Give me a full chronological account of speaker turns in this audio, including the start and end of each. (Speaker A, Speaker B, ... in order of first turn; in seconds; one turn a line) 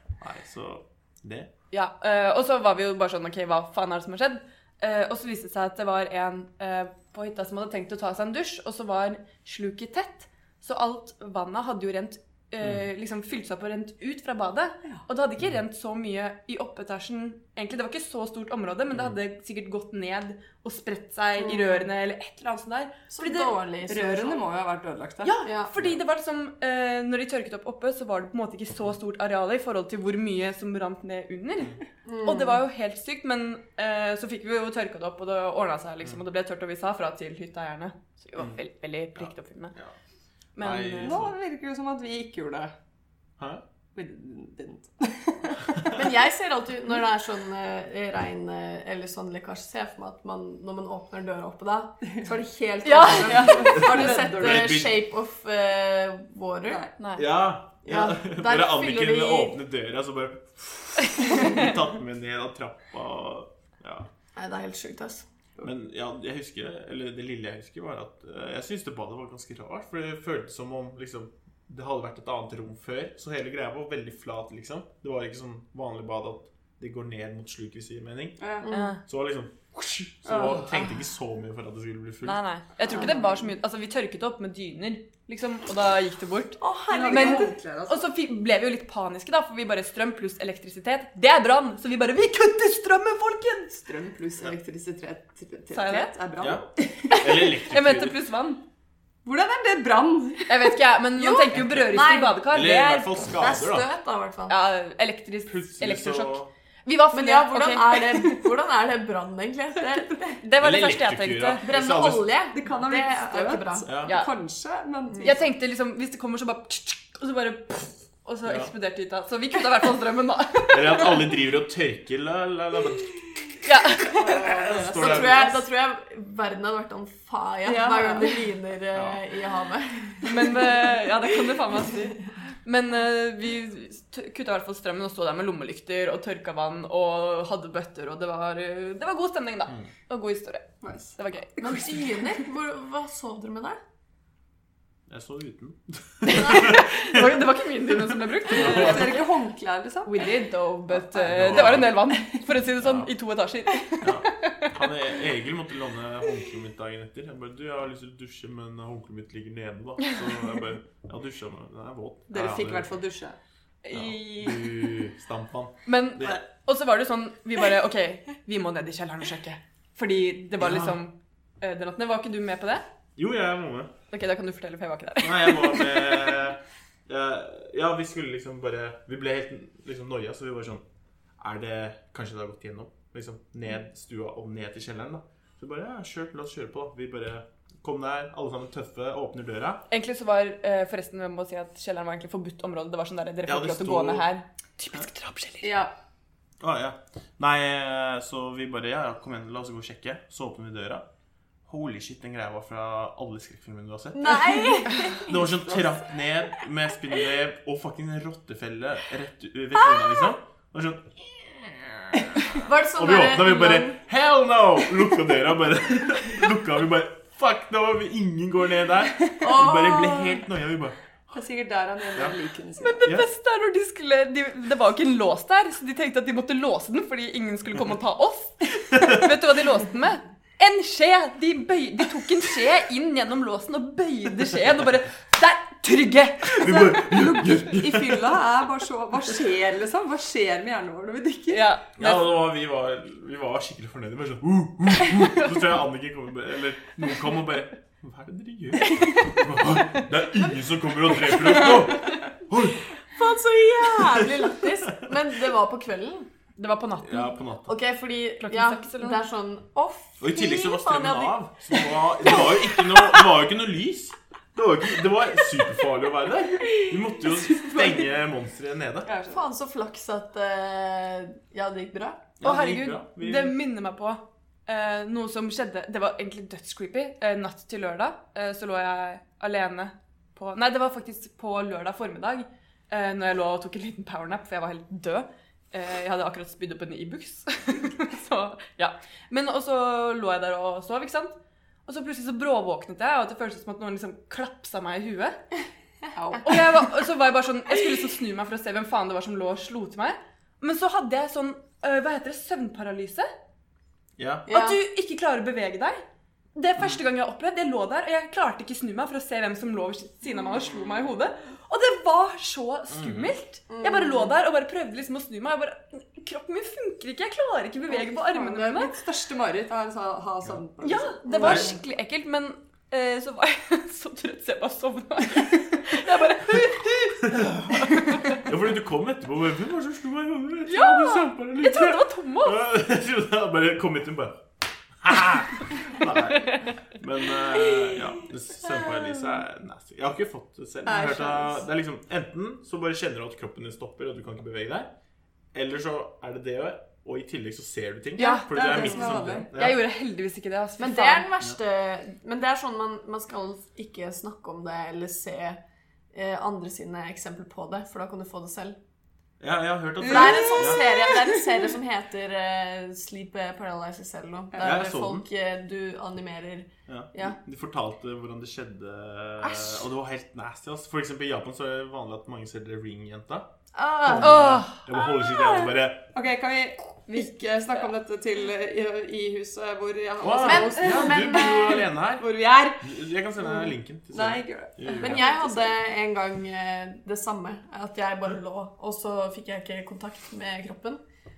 Speaker A: 0.2-1.5
Speaker B: 1.7-23.6
Speaker C: 23.1-24.4
Speaker D: 23.9-25.4
Speaker B: 25.2-39.7
Speaker C: 25.4-25.7
Speaker C: 32.0-32.6
Speaker A: 39.2-40.0
Speaker B: 40.6-41.2
Speaker A: 40.6-41.4
Speaker D: 41.0-42.7
Speaker D: 44.0-45.9
Speaker C: 45.9-56.8
Speaker B: 52.9-53.8
Speaker D: 53.1-54.8
Speaker A: 53.8-55.0
Speaker D: 56.7-56.9
Speaker B: 57.0-57.3
Speaker A: 57.2-64.1
Speaker C: 57.9-59.6
Speaker C: 64.4-65.2
Speaker A: 65.6-78.4
Speaker D: 78.4-78.7
Speaker C: 78.6-78.9
Speaker B: 78.7-79.0
Speaker A: 79.0-82.4
Speaker D: 80.3-80.8
Speaker B: 82.2-93.9
Speaker C: 82.9-83.3
Speaker C: 86.6-87.5
Speaker D: 86.9-88.1
Speaker D: 93.9-97.4
Speaker B: 95.7-96.1
Speaker A: 96.4-98.2
Speaker B: 97.1-98.6
Speaker D: 99.2-100.7
Speaker B: 100.5-103.3
Speaker C: 101.2-102.5
Speaker A: 101.5-101.8
Speaker A: 102.5-103.9
Speaker C: 103.3-104.6
Speaker B: 104.5-108.4
Speaker A: 105.5-106.5
Speaker C: 107.1-110.4
Speaker B: 110.4-111.7
Speaker A: 110.6-112.3
Speaker C: 111.6-113.9
Speaker D: 112.5-115.5
Speaker A: 113.8-114.2
Speaker B: 114.1-114.3
Speaker B: 115.2-121.2
Speaker A: 118.5-118.7
Speaker A: 120.7-123.4
Speaker B: 123.7-124.3
Speaker D: 124.0-125.5
Speaker A: 124.2-125.6
Speaker C: 125.0-131.2
Speaker D: 127.7-128.4
Speaker A: 128.9-129.2
Speaker B: 130.2-142.3
Speaker D: 140.8-141.2
Speaker C: 141.6-143.8
Speaker A: 145.1-147.5
Speaker B: 146.2-149.3
Speaker A: 148.4-149.2
Speaker D: 148.5-150.3
Speaker B: 150.1-154.7
Speaker A: 151.0-152.0
Speaker A: 152.8-153.1
Speaker A: 154.0-162.9
Speaker D: 162.3-163.4
Speaker B: 163.8-165.0
Speaker A: 163.9-166.4
Speaker B: 165.9-172.8
Speaker A: 170.6-171.0
Speaker A: 173.2-173.9
Speaker B: 174.1-176.5
Speaker A: 175.2-180.8
Speaker A: 181.4-189.8
Speaker B: 189.9-195.8
Speaker A: 193.5-194.3
Speaker D: 195.6-195.9
Speaker A: 196.6-201.1
Speaker A: 201.7-221.0
Speaker C: 204.1-205.7
Speaker C: 209.8-210.3
Speaker C: 212.6-214.0
Speaker C: 219.4-220.4
Speaker D: 221.3-223.1
Speaker B: 222.8-236.9
Speaker A: 228.9-229.3
Speaker A: 236.4-238.4
Speaker D: 236.9-241.7
Speaker B: 241.5-242.4
Speaker A: 242.0-252.9
Speaker C: 251.2-252.1
Speaker C: 253.0-256.3
Speaker A: 254.0-254.4
Speaker B: 256.6-257.3
Speaker A: 257.0-257.8
Speaker C: 257.7-263.2
Speaker B: 258.4-259.2
Speaker A: 260.2-269.1
Speaker D: 267.6-268.0
Speaker D: 269.1-269.5
Speaker C: 269.3-272.3
Speaker A: 272.4-273.6
Speaker B: 272.4-295.4
Speaker B: 296.2-303.3
Speaker A: 304.2-304.5
Speaker C: 304.5-304.8
Speaker B: 304.5-306.0
Speaker B: 306.6-318.9
Speaker A: 312.9-313.4
Speaker C: 313.7-314.3
Speaker D: 317.9-321.7
Speaker B: 320.8-328.4
Speaker C: 321.3-321.7
Speaker A: 321.4-321.7
Speaker A: 327.3-334.5
Speaker B: 330.7-332.6
Speaker A: 335.0-344.9
Speaker C: 337.6-338.0
Speaker C: 338.7-339.4
Speaker D: 340.9-341.7
Speaker A: 345.5-349.8
Speaker B: 348.2-348.7
Speaker C: 348.2-349.2
Speaker D: 348.5-349.5
Speaker B: 349.5-351.3
Speaker C: 350.8-355.6
Speaker C: 356.1-358.8
Speaker A: 359.4-360.9
Speaker D: 360.0-361.5
Speaker C: 360.0-367.4
Speaker A: 364.6-365.2
Speaker A: 366.9-373.5
Speaker C: 369.4-369.8
Speaker C: 373.7-374.6
Speaker A: 374.0-376.1
Speaker B: 374.2-374.8
Speaker D: 376.1-382.8
Speaker A: 380.2-382.3
Speaker C: 380.4-381.9
Speaker A: 382.8-385.2
Speaker D: 384.1-385.7
Speaker C: 384.9-391.0